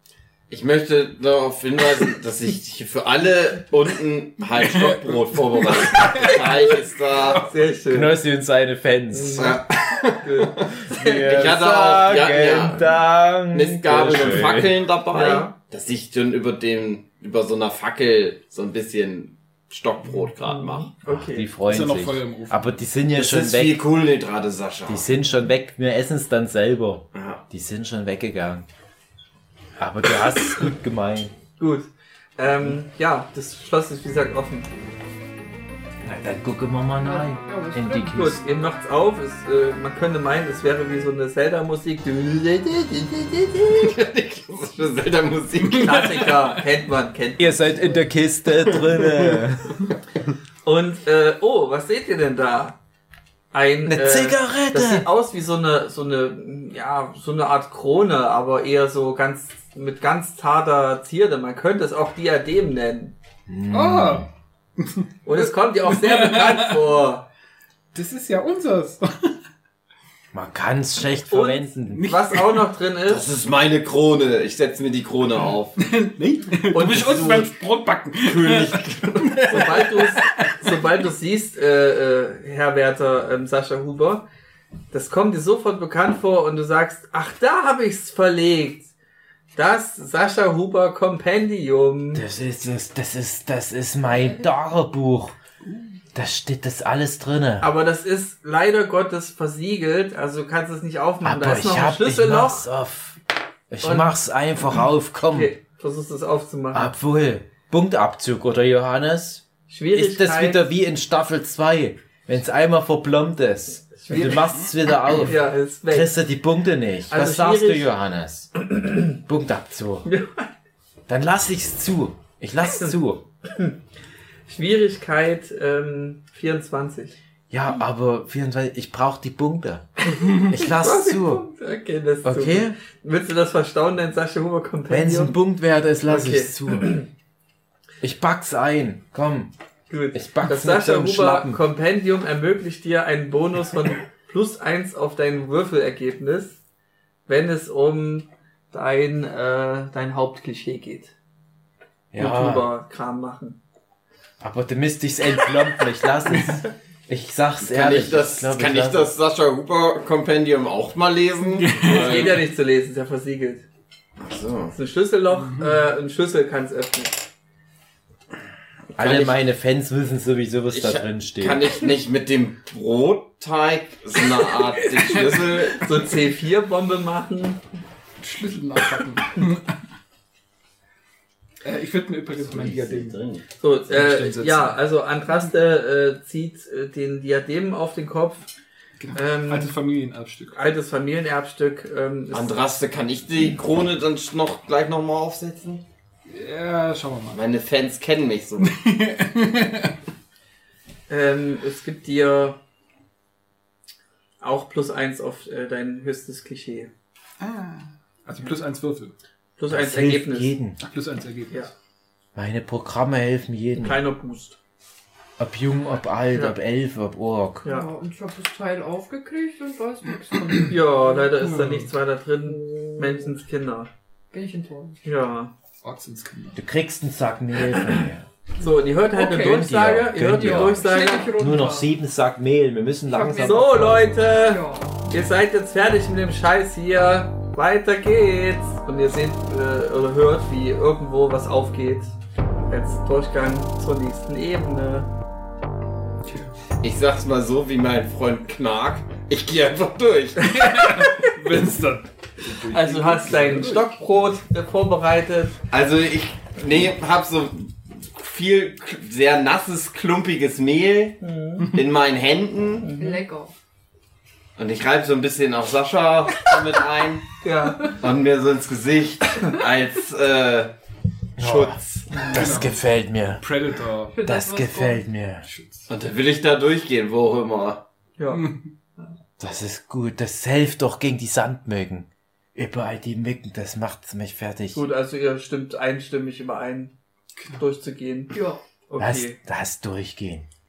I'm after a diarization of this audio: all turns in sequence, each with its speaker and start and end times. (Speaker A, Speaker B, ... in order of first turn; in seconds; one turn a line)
Speaker A: 0.5-7.4
Speaker B: 4.8-6.5
Speaker C: 7.3-8.2
Speaker D: 7.9-9.6
Speaker C: 9.1-11.4
Speaker A: 9.3-12.9
Speaker D: 10.9-14.7
Speaker A: 13.5-20.9
Speaker C: 15.1-15.5
Speaker C: 20.4-21.5
Speaker D: 21.0-23.8
Speaker B: 21.6-22.7
Speaker A: 23.1-25.1
Speaker D: 24.9-28.6
Speaker A: 27.1-27.4
Speaker D: 29.8-31.3
Speaker C: 31.6-34.7
Speaker D: 36.0-38.4
Speaker E: 37.0-38.3
Speaker C: 38.1-43.9
Speaker A: 43.7-46.3
Speaker B: 45.7-46.3
Speaker C: 45.7-48.0
Speaker D: 47.4-49.8
Speaker C: 50.6-52.8
Speaker C: 53.5-63.1
Speaker D: 53.9-55.1
Speaker D: 63.5-64.3
Speaker B: 63.7-66.8
Speaker C: 65.2-67.2
Speaker B: 67.9-69.3
Speaker D: 70.3-72.1
Speaker C: 71.3-73.3
Speaker B: 71.9-72.7
Speaker A: 73.1-75.8
Speaker B: 75.8-80.7
Speaker C: 76.7-77.5
Speaker A: 78.2-79.2
Speaker C: 79.2-84.2
Speaker C: 84.9-88.9
Speaker C: 89.5-92.2
Speaker D: 92.1-95.3
Speaker D: 96.1-97.7
Speaker C: 97.6-102.7
Speaker D: 101.2-103.2
Speaker D: 103.7-105.5
Speaker C: 103.8-104.2
Speaker C: 105.3-106.9
Speaker D: 106.7-115.3
Speaker C: 109.7-110.6
Speaker C: 114.0-114.6
Speaker C: 115.1-116.1
Speaker D: 115.9-118.5
Speaker C: 117.1-117.9
Speaker C: 118.6-119.2
Speaker D: 119.2-120.1
Speaker C: 120.0-120.5
Speaker D: 121.1-123.2
Speaker C: 123.4-123.8
Speaker C: 124.5-127.2
Speaker D: 127.5-131.4
Speaker C: 130.1-135.3
Speaker D: 132.2-132.8
Speaker D: 134.9-137.0
Speaker C: 136.1-137.1
Speaker D: 138.0-139.5
Speaker C: 139.9-146.6
Speaker D: 140.1-141.6
Speaker C: 147.3-151.1
Speaker D: 152.1-152.7
Speaker C: 152.2-153.6
Speaker D: 154.4-159.1
Speaker A: 157.6-162.4
Speaker B: 161.5-162.4
Speaker C: 161.8-163.6
Speaker A: 164.2-164.7
Speaker C: 164.7-167.2
Speaker B: 165.4-165.8
Speaker D: 168.9-171.7
Speaker A: 169.0-169.4
Speaker A: 170.7-175.9
Speaker B: 174.9-175.7
Speaker C: 175.7-177.6
Speaker B: 178.2-179.7
Speaker B: 181.6-183.2
Speaker A: 182.4-183.4
Speaker C: 183.6-188.5
Speaker B: 183.9-184.8
Speaker B: 189.0-190.6
Speaker C: 189.1-189.8
Speaker C: 190.5-192.6
Speaker A: 192.3-195.8
Speaker B: 196.3-197.4
Speaker A: 197.3-198.8
Speaker B: 198.6-199.9
Speaker C: 201.1-202.6
Speaker C: 204.4-206.9
Speaker B: 207.4-209.1
Speaker C: 209.6-210.6
Speaker D: 209.7-210.8
Speaker B: 210.8-211.7
Speaker D: 212.3-214.0
Speaker C: 213.8-214.6
Speaker D: 215.4-217.6
Speaker C: 217.6-217.9
Speaker E: 217.6-221.8
Speaker C: 220.7-223.9
Speaker E: 222.6-223.2
Speaker E: 224.3-225.0
Speaker C: 225.0-225.5
Speaker B: 225.8-226.6
Speaker D: 226.5-228.2
Speaker C: 227.7-228.1
Speaker C: 228.6-231.3
Speaker E: 228.7-229.7
Speaker D: 229.4-230.8
Speaker E: 230.3-231.9
Speaker D: 231.4-234.0
Speaker E: 233.1-235.1
Speaker C: 233.4-242.1
Speaker C: 242.7-245.1
Speaker A: 246.8-250.9
Speaker B: 250.4-253.9
Speaker C: 252.7-255.5
Speaker A: 255.7-261.2
Speaker C: 261.2-261.8
Speaker A: 261.7-262.9
Speaker C: 262.8-263.2
Speaker E: 263.0-263.5
Speaker A: 264.6-270.7
Speaker C: 267.4-267.9
Speaker A: 271.4-272.3
Speaker D: 271.4-273.4
Speaker C: 272.1-272.5
Speaker B: 272.3-272.8
Speaker B: 273.4-274.2
Speaker E: 274.1-275.0
Speaker D: 274.2-275.4
Speaker B: 275.4-275.9
Speaker A: 275.9-277.8
Speaker C: 278.2-278.5
Speaker B: 278.3-278.7
Speaker D: 279.4-284.8
Speaker C: 284.7-286.9
Speaker C: 287.5-288.4
Speaker E: 288.3-288.6
Speaker C: 288.9-289.4
Speaker D: 289.0-290.4